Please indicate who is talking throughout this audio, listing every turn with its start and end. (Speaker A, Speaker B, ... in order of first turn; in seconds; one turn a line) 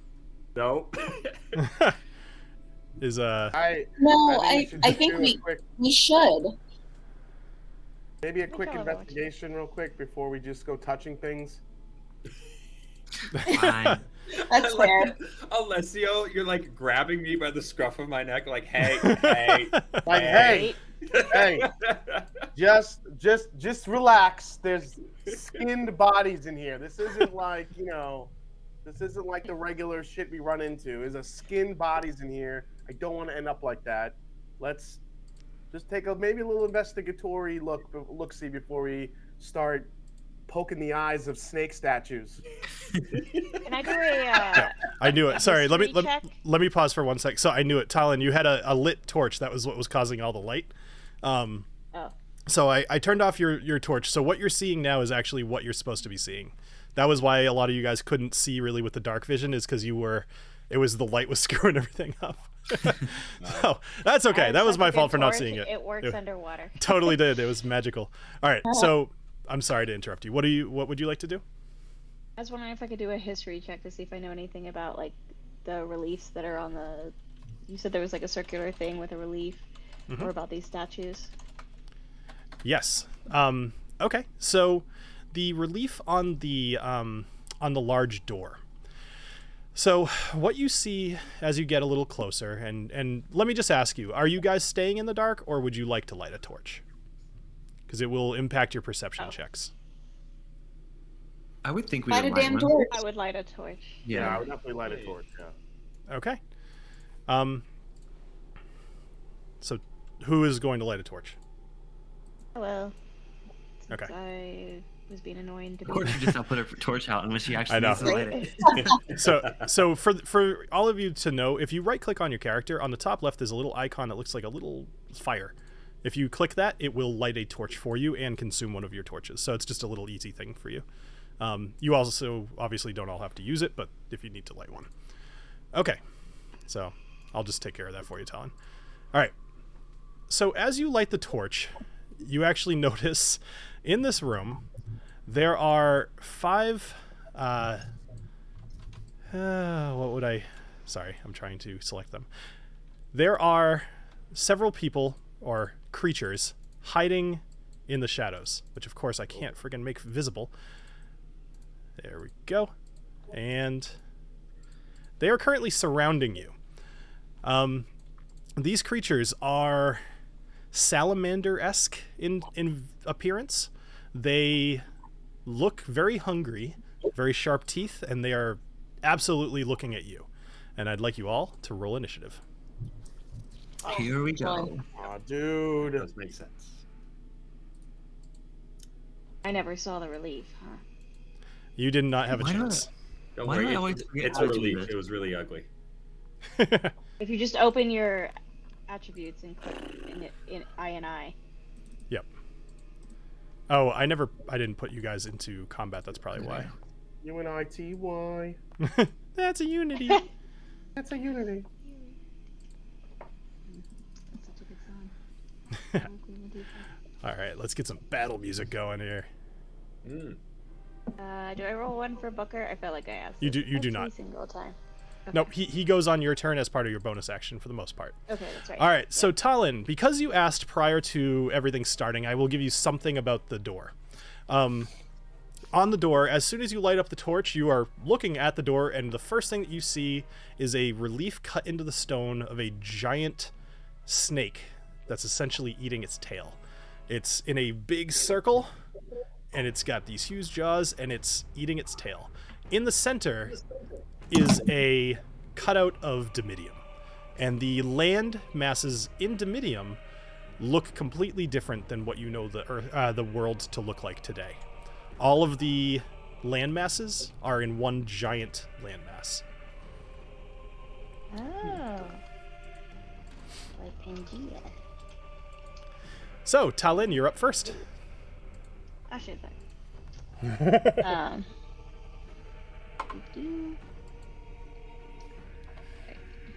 Speaker A: 0.6-1.6
Speaker B: 1.6-1.9
Speaker B: 3.0-3.6
Speaker C: 3.5-5.6
Speaker D: 4.0-6.5
Speaker C: 8.2-11.6
Speaker E: 8.5-9.2
Speaker B: 13.3-14.0
Speaker F: 13.4-14.1
Speaker A: 14.3-22.3
Speaker D: 14.4-15.1
Speaker B: 19.0-20.0
Speaker C: 20.1-20.8
Speaker E: 20.3-20.8
Speaker C: 21.3-21.7
Speaker C: 22.6-28.3
Speaker C: 28.9-35.0
Speaker C: 35.7-39.9
Speaker C: 40.5-42.4
Speaker A: 43.1-43.9
Speaker E: 43.6-46.3
Speaker B: 44.5-51.7
Speaker B: 52.5-66.2
Speaker A: 63.4-63.7
Speaker E: 64.3-67.2
Speaker B: 66.8-71.4
Speaker E: 72.4-77.1
Speaker E: 77.7-79.7
Speaker E: 80.2-81.3
Speaker B: 82.6-88.6
Speaker B: 89.8-96.8
Speaker B: 97.9-99.7
Speaker F: 101.6-102.8
Speaker D: 102.1-103.0
Speaker E: 102.3-104.3
Speaker F: 104.0-104.5
Speaker C: 104.1-105.5
Speaker A: 104.8-105.2
Speaker B: 106.1-106.4
Speaker B: 107.3-107.7
Speaker B: 109.6-111.4
Speaker E: 112.6-112.9
Speaker E: 113.8-116.4
Speaker F: 115.9-119.0
Speaker B: 117.7-118.2
Speaker D: 118.0-119.0
Speaker A: 118.8-119.7
Speaker B: 119.1-130.8
Speaker B: 131.4-134.9
Speaker B: 135.7-136.0
Speaker B: 136.7-138.5
Speaker B: 140.3-144.6
Speaker B: 145.3-147.8
Speaker B: 149.3-152.3
Speaker B: 153.1-160.5
Speaker B: 162.0-162.7
Speaker B: 163.3-164.0
Speaker B: 165.2-166.6
Speaker B: 167.4-167.9
Speaker B: 168.6-170.0
Speaker B: 170.7-174.8
Speaker B: 175.5-182.4
Speaker F: 183.9-184.8
Speaker D: 183.9-184.7
Speaker C: 185.0-186.1
Speaker A: 185.8-186.8
Speaker E: 189.4-190.8
Speaker B: 191.8-192.9
Speaker F: 192.3-192.9
Speaker A: 193.4-195.7
Speaker F: 193.4-195.0
Speaker B: 196.6-196.9
Speaker E: 197.2-198.3
Speaker E: 198.9-201.3
Speaker B: 203.7-206.7
Speaker C: 207.2-208.6
Speaker B: 208.8-210.2
Speaker C: 211.0-211.7
Speaker E: 211.8-212.2
Speaker E: 213.7-215.1
Speaker E: 215.9-216.9
Speaker B: 217.2-219.3
Speaker A: 220.0-220.4
Speaker E: 221.2-224.8
Speaker B: 223.4-224.1
Speaker B: 225.3-228.2
Speaker E: 228.3-229.3
Speaker B: 228.8-233.9
Speaker B: 234.5-234.9
Speaker B: 235.7-243.5
Speaker B: 244.1-248.7
Speaker B: 249.5-253.6
Speaker B: 254.3-256.8
Speaker B: 257.4-260.0
Speaker B: 260.6-264.6
Speaker B: 265.2-269.4
Speaker E: 271.3-272.2
Speaker E: 273.8-274.8
Speaker B: 276.4-277.8
Speaker E: 279.1-279.6
Speaker B: 280.4-281.1
Speaker E: 281.0-281.5
Speaker E: 283.1-283.8